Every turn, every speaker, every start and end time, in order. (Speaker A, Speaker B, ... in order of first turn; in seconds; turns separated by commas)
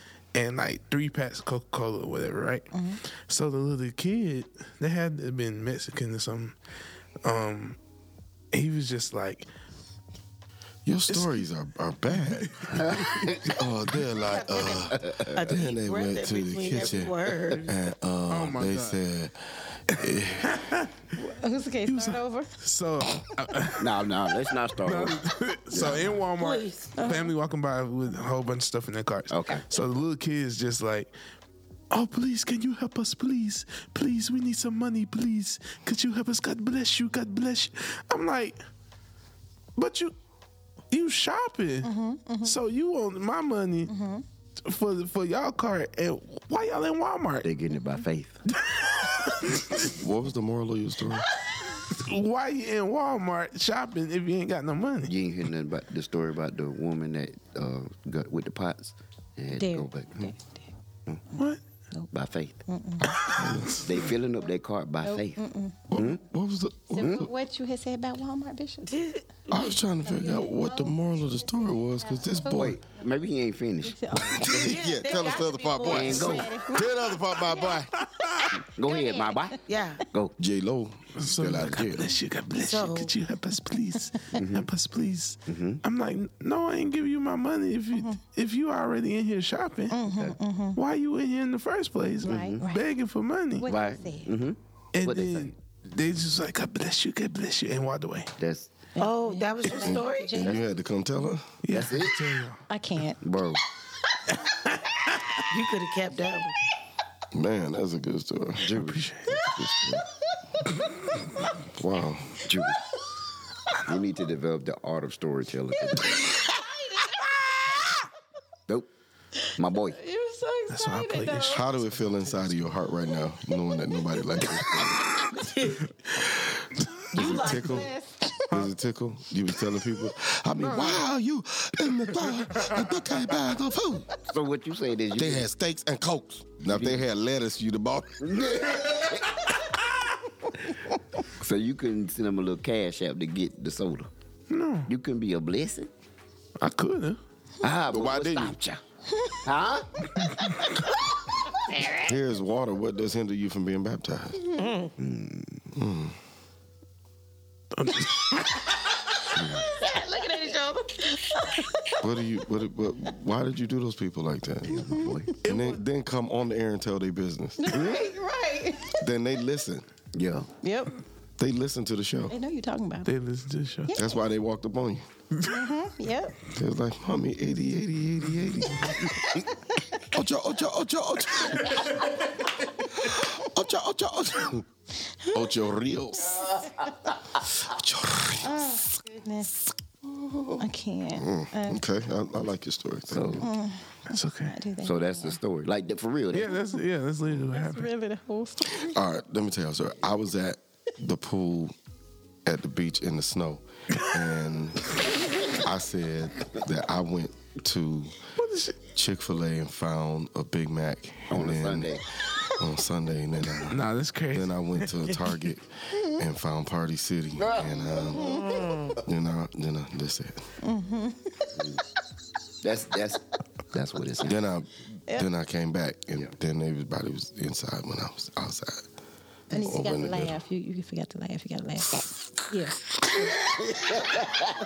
Speaker A: 0.3-6.6, Speaker B: 2.7-3.0, Speaker A: 7.2-7.8, Speaker A: 8.5-9.5, Speaker C: 10.8-20.5, Speaker A: 11.1-11.4, Speaker A: 12.1-13.4, Speaker D: 12.7-13.5, Speaker B: 14.2-14.9, Speaker D: 14.9-15.5, Speaker E: 15.3-17.7, Speaker A: 18.3-19.0, Speaker A: 19.9-20.9, Speaker B: 21.1-22.5, Speaker A: 21.9-24.1, Speaker D: 23.8-26.2, Speaker A: 24.8-31.1, Speaker E: 26.4-27.0, Speaker B: 27.0-27.3, Speaker D: 29.3-29.6, Speaker A: 31.9-38.6, Speaker A: 39.8-40.1, Speaker A: 40.9-43.9, Speaker B: 41.8-42.6, Speaker B: 43.9-44.2, Speaker A: 44.6-47.5, Speaker D: 47.4-48.4, Speaker B: 47.8-48.0, Speaker A: 48.6-49.9, Speaker C: 49.9-51.3, Speaker A: 51.9-55.1, Speaker D: 55.0-60.3, Speaker B: 59.5-60.6, Speaker D: 62.1-62.6, Speaker B: 62.7-63.3, Speaker C: 63.2-64.0, Speaker D: 63.8-65.4, Speaker B: 65.0-65.8, Speaker C: 65.9-67.3, Speaker D: 65.9-66.2, Speaker B: 66.9-69.0, Speaker D: 67.0-67.3, Speaker E: 68.9-69.7, Speaker C: 69.5-72.8, Speaker B: 69.6-71.0, Speaker B: 71.7-72.8, Speaker D: 72.5-74.0, Speaker B: 73.8-77.8, Speaker C: 74.2-77.9, Speaker E: 74.4-76.6, Speaker D: 75.8-76.5, Speaker A: 78.0-78.6, Speaker D: 78.5-80.3, Speaker B: 78.8-79.5, Speaker E: 79.1-80.1, Speaker C: 80.4-82.1, Speaker A: 81.2-90.0, Speaker E: 82.6-83.1, Speaker D: 84.3-84.7, Speaker D: 85.5-85.8, Speaker B: 89.9-90.8, Speaker D: 90.1-90.4, Speaker A: 90.8-93.7, Speaker D: 92.2-92.7, Speaker B: 92.2-92.8, Speaker B: 93.6-94.3, Speaker D: 93.7-95.5, Speaker A: 94.9-98.3, Speaker D: 98.4-98.7, Speaker B: 99.0-100.7, Speaker E: 99.0-100.5, Speaker C: 99.7-101.6, Speaker A: 101.6-102.6, Speaker D: 101.7-102.2, Speaker B: 102.7-103.2, Speaker D: 103.2-103.6, Speaker A: 104.3-105.2, Speaker E: 105.5-106.5, Speaker C: 107.3-108.8, Speaker D: 108.6-110.0, Speaker A: 108.8-109.6, Speaker A: 110.7-111.2, Speaker C: 111.7-112.4, Speaker D: 112.4-112.8, Speaker D: 113.9-116.3, Speaker D: 119.6-120.0, Speaker B: 119.9-121.6, Speaker A: 120.7-122.8, Speaker C: 121.5-125.0, Speaker D: 124.6-125.0, Speaker E: 125.3-125.8, Speaker C: 127.1-127.9, Speaker B: 127.2-128.5, Speaker E: 127.2-127.8, Speaker C: 128.5-134.1, Speaker D: 134.1-135.5, Speaker C: 135.2-139.0, Speaker D: 136.6-137.0, Speaker D: 138.2-139.5, Speaker D: 141.3-144.1, Speaker A: 144.5-144.9, Speaker D: 144.9-145.9, Speaker A: 146.6-147.2, Speaker D: 147.6-148.8, Speaker C: 147.9-148.6, Speaker D: 149.4-150.1, Speaker C: 152.0-154.4, Speaker E: 154.6-154.9, Speaker D: 155.0-155.7, Speaker C: 155.7-156.2, Speaker A: 157.8-158.6, Speaker D: 159.3-159.7, Speaker B: 159.8-161.7, Speaker C: 162.0-167.8, Speaker D: 164.7-165.4, Speaker A: 165.4-165.8, Speaker B: 167.6-169.0, Speaker D: 167.7-168.1, Speaker C: 169.0-169.8, Speaker D: 170.1-170.5, Speaker B: 170.6-170.9, Speaker C: 171.4-172.3, Speaker B: 172.3-173.1, Speaker A: 173.1-173.9, Speaker B: 173.9-174.2, Speaker C: 173.9-175.1, Speaker B: 175.4-176.4, Speaker C: 176.5-179.2, Speaker C: 180.1-182.1, Speaker C: 182.9-184.7, Speaker C: 185.3-186.4, Speaker C: 187.6-188.8, Speaker B: 188.4-189.6, Speaker B: 190.6-191.8, Speaker C: 191.2-193.5, Speaker D: 193.1-193.5, Speaker B: 193.4-195.4, Speaker A: 194.1-194.6, Speaker D: 194.8-196.6, Speaker A: 196.3-197.9, Speaker B: 197.5-199.0, Speaker C: 198.7-201.7, Speaker C: 202.4-208.2, Speaker A: 208.4-208.8, Speaker C: 208.9-213.8, Speaker D: 211.3-212.1, Speaker A: 213.7-215.2, Speaker C: 214.3-220.5, Speaker D: 217.4-218.2, Speaker E: 218.2-219.0, Speaker B: 220.6-221.5, Speaker D: 221.6-221.8, Speaker D: 222.6-224.4, Speaker C: 224.2-228.9, Speaker B: 229.5-233.3, Speaker C: 229.6-230.4, Speaker D: 234.0-234.4